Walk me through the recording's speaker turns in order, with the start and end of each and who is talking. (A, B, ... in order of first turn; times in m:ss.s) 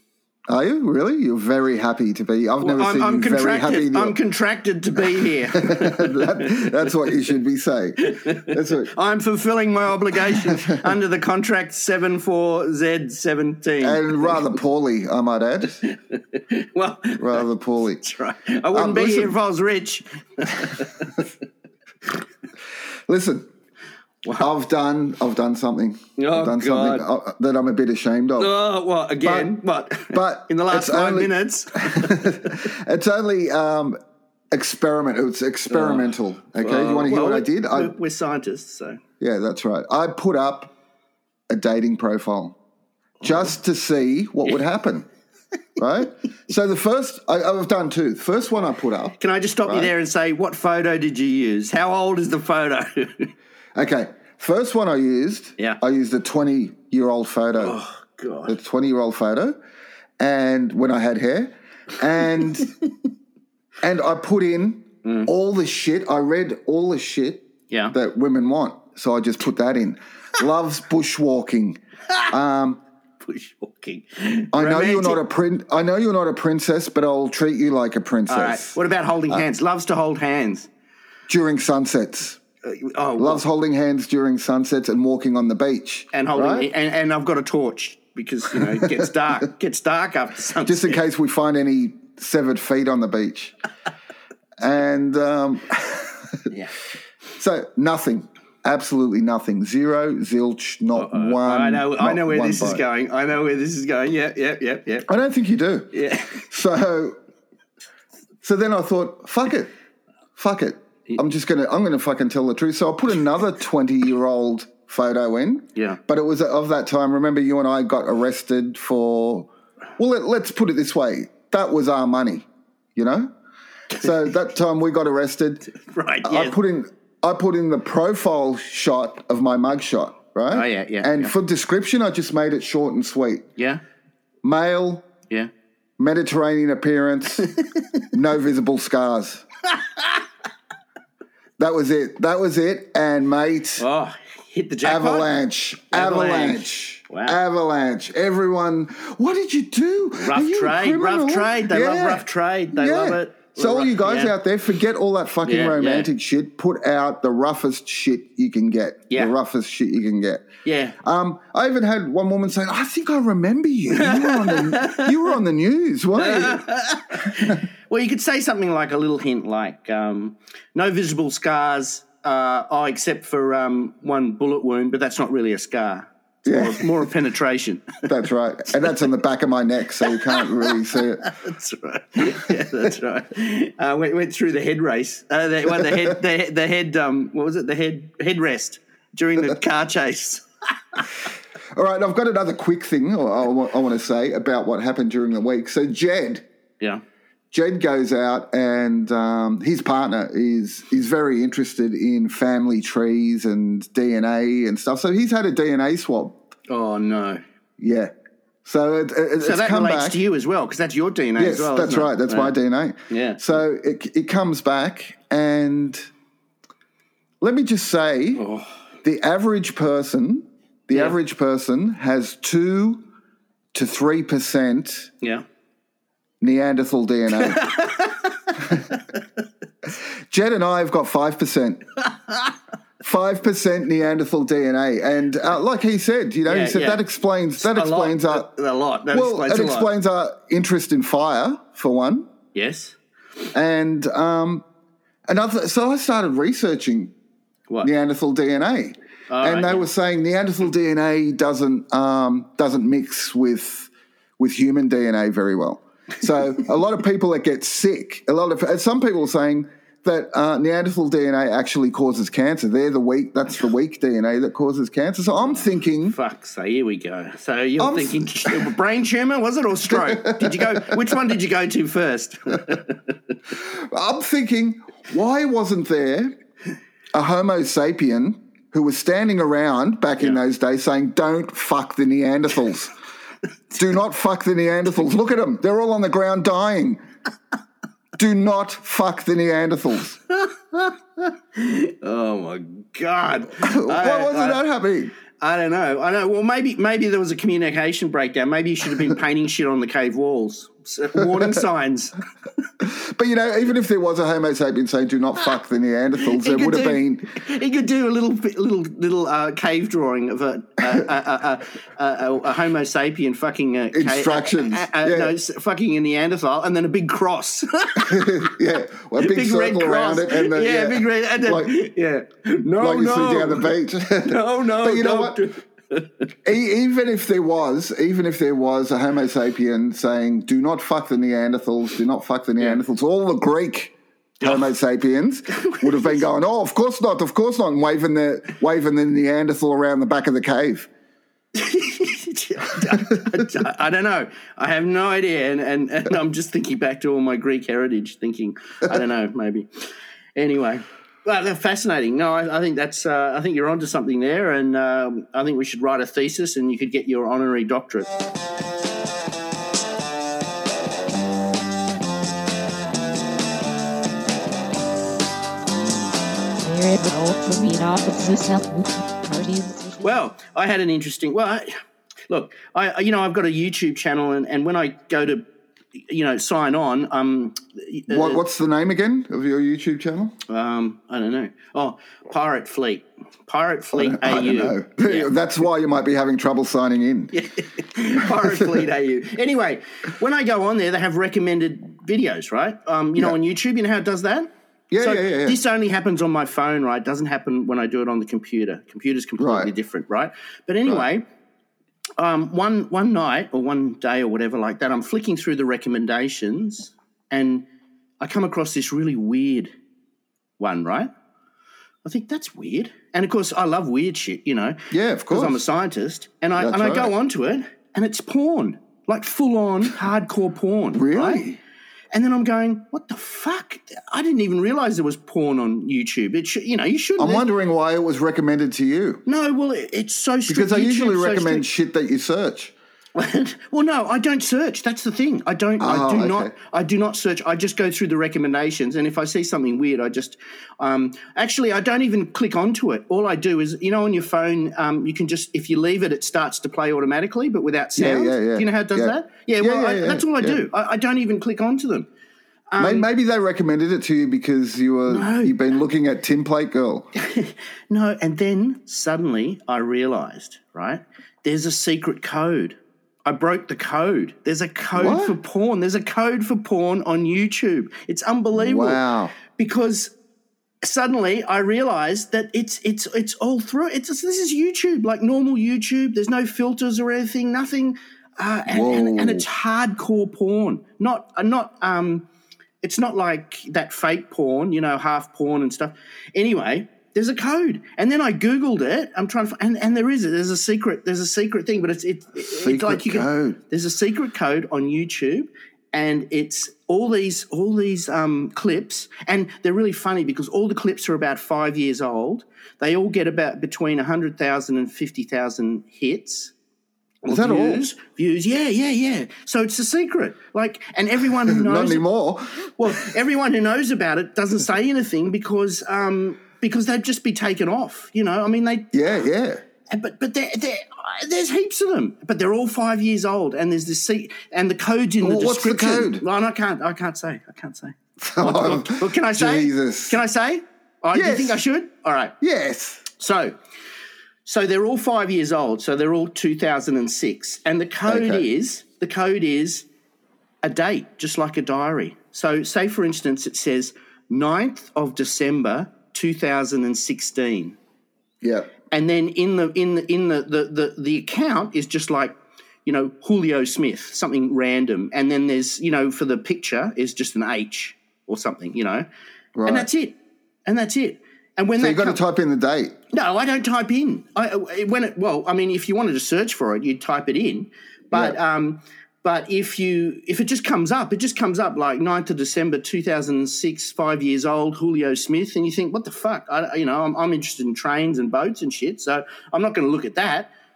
0:00.5-0:04.2 A
0:02.6-0:06.7 B
0:05.1-0:08.9 A
0:08.0-0:14.5 B
0:10.3-0:10.8 A
0:13.8-0:15.8 A
0:15.8-0:17.5 B
0:17.2-0:18.0 A
0:18.0-0:21.2 B
0:18.7-0:19.4 A
0:23.1-0:23.5 A
0:24.4-0:28.5 A
0:26.2-0:27.0 B
0:28.4-0:32.6 B
0:29.2-0:29.6 A
0:30.1-0:34.0 A
0:34.5-0:37.9 A
0:35.7-0:39.0 B
0:39.2-0:40.7 A
0:41.5-0:42.6 A
0:43.2-0:45.1 A
0:45.8-0:49.1 A
0:49.2-0:53.3 B
0:49.7-0:49.9 A
0:53.8-0:57.8 A
0:57.6-0:58.6 B
0:58.5-0:59.6 A
1:00.2-1:02.7 A
1:03.8-1:11.8 A
1:05.0-1:05.3 B
1:07.7-1:08.0 B
1:12.3-1:12.8 A
1:13.2-1:15.2 B
1:14.5-1:18.8 A
1:18.3-1:20.7 B
1:21.3-1:22.4 A
1:22.6-1:23.4 B
1:23.2-1:26.7 A
1:26.1-1:31.0 B
1:30.6-1:33.6 A
1:34.6-1:36.4 A
1:37.4-1:42.8 A
1:41.0-1:45.1 B
1:45.1-1:45.9 A
1:45.9-1:46.5 B
1:46.5-1:47.2 A
1:48.4-1:49.7 A
1:50.4-2:03.3 A
2:04.0-2:05.7 A
2:05.7-2:06.6 B
2:06.2-2:13.5 A
2:10.5-2:11.4 B
2:14.4-2:15.1 A
2:16.0-2:17.5 A
2:17.4-2:17.8 B
2:18.1-2:19.4 A
2:19.8-2:20.2 B
2:21.6-2:23.8 A
2:23.8-2:25.3 B
2:24.8-2:40.4 A
2:25.9-2:27.4 B
2:30.2-2:34.3 B
2:35.4-2:36.1 B
2:39.1-2:39.4 B
2:40.6-2:41.0 B
2:41.0-2:46.7 A
2:43.9-2:45.3 B
2:46.2-2:58.0 B
2:56.5-2:57.1 A
2:58.1-3:01.3 A
3:00.1-3:10.4 B
3:05.8-3:06.0 A
3:11.8-3:16.4 A
3:17.5-3:26.4 A
3:26.7-3:27.4 B
3:27.8-3:28.1 A
3:28.6-3:30.2 A
3:29.4-3:32.6 B
3:31.4-3:36.1 A
3:33.1-3:33.4 B
3:37.4-3:38.4 A
3:38.4-3:38.7 B
3:39.0-3:43.0 A
3:40.9-3:41.2 B
3:43.7-3:45.1 A
3:46.4-3:47.7 A
3:47.4-3:49.0 B
3:48.6-3:48.9 A
3:50.3-3:51.8 A
3:52.1-3:52.5 B
3:53.0-3:58.5 A
3:56.5-3:57.0 B
3:57.6-3:59.9 B
3:59.1-4:02.3 A
4:02.5-4:03.0 B
4:03.5-4:04.6 A
4:05.3-4:07.1 A
4:07.8-4:26.2 A
4:09.3-4:09.9 B
4:25.3-4:33.1 B
4:27.8-4:28.7 A
4:29.9-4:31.2 A
4:33.5-4:36.4 A
4:37.1-4:42.9 A
4:43.8-4:47.0 A
4:48.2-4:50.2 A
4:50.7-4:54.6 B
4:53.6-4:55.1 A
4:55.4-5:02.2 B
5:01.2-5:01.6 A
5:02.8-5:07.4 A
5:06.2-5:18.5 B
5:13.9-5:15.3 A
5:18.0-5:21.7 A
5:19.2-5:23.7 B
5:22.8-5:25.4 A
5:24.2-5:26.1 B
5:26.4-5:40.9 A
5:34.4-5:34.7 B
5:35.6-5:36.2 B
5:41.6-5:49.7 B
5:50.4-5:58.1 B
6:06.6-6:10.2 C
6:10.0-6:11.7 B
6:12.3-6:18.4 B
6:18.1-6:20.4 A
6:20.5-6:25.3 B
6:23.9-6:27.3 A
6:27.3-6:41.2 B
6:34.9-6:35.6 A
6:39.4-6:39.7 A
6:42.2-6:47.6 B
6:48.2-6:49.7 B
6:50.6-6:51.1 B
6:52.0-6:54.8 B
6:54.9-6:55.6 A
6:55.3-7:01.4 B
6:56.6-6:57.1 A
7:00.9-7:01.6 A
7:02.1-7:07.5 B
7:07.2-7:09.2 A
7:09.3-7:11.7 B
7:10.5-7:12.7 A
7:13.2-7:32.1 B
7:15.8-7:16.5 A
7:28.0-7:30.6 A
7:32.7-7:33.1 B
7:32.8-7:37.1 A
7:35.1-7:35.6 B
7:37.2-7:49.0 B
7:45.0-7:45.4 A
7:48.5-7:49.3 A
7:49.5-7:50.1 B
7:50.8-8:02.3 B
7:58.7-7:59.5 A
8:02.8-8:26.5 B
8:12.5-8:13.6 A
8:27.2-8:32.0 B
8:27.3-8:27.9 A
8:31.5-8:33.1 A
8:32.7-8:38.9 B
8:38.9-8:39.6 A
8:39.9-8:52.3 B
8:45.2-8:46.2 A
8:48.2-8:50.2 A
8:51.1-8:51.6 A
8:52.4-8:53.1 A
8:53.1-8:53.6 B
8:54.4-8:59.9 B
8:58.1-8:58.4 A
9:00.6-9:07.8 B
9:08.4-9:08.7 A
9:08.9-9:19.1 B
9:19.6-9:19.9 A
9:19.7-9:22.2 B
9:21.8-9:23.0 A
9:23.1-9:40.5 B
9:28.1-9:28.4 A